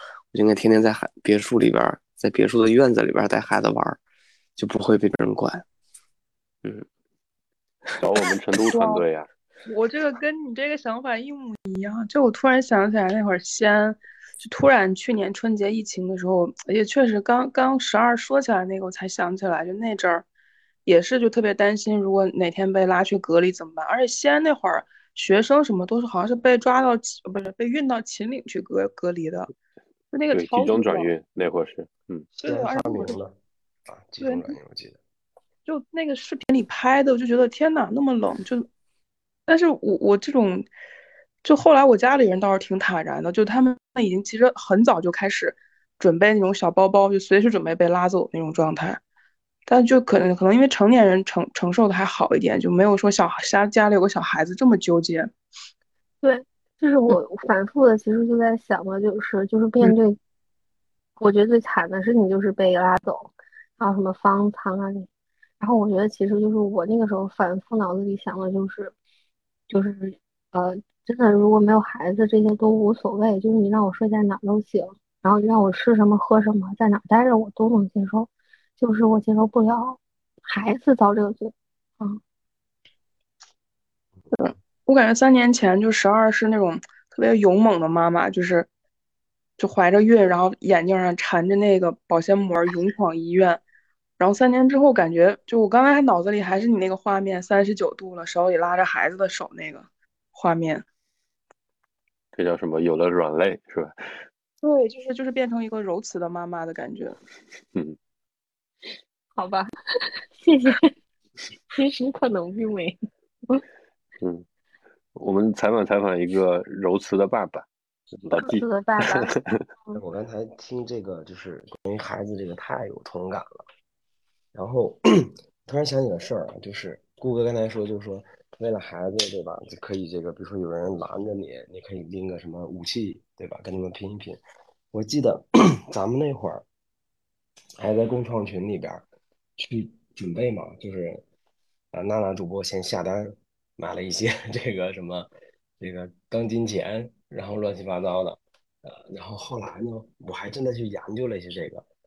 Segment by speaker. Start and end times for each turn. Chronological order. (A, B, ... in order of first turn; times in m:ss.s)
0:00.3-0:04.0 A
0:04.6-0:05.6 A
0:08.0-0:09.3 B
0:08.6-0:09.0 C
0:09.6-0:20.2 C
0:20.8-0:29.5 C
0:30.1-0:31.1 C
0:30.3-0:32.3 B
0:32.3-0:33.2 C
0:32.4-0:33.4 D
0:33.9-0:35.0 D
0:34.2-0:34.6 C
0:35.6-0:38.7 C
0:39.5-0:40.7 C
0:41.4-0:49.0 C
0:49.7-0:55.3 C
0:56.2-1:00.2 E
1:01.2-1:05.1 E
1:05.6-1:08.9 E
1:09.7-1:22.2 E
1:24.3-1:28.7 C
1:29.6-1:33.6 C
1:34.2-1:40.8 C
1:42.3-1:44.1 B
1:44.6-1:47.2 C
1:49.4-1:50.9 E
1:51.7-1:53.6 E
1:54.2-1:54.4 B
1:55.1-1:57.6 B
1:58.2-1:59.3 E
1:58.3-1:59.6 B
2:00.0-2:03.6 D
2:04.5-2:14.4 D
2:14.9-2:16.6 D
2:17.8-2:19.0 D
2:19.6-2:21.2 D
2:21.9-2:25.3 D
2:25.8-2:31.8 D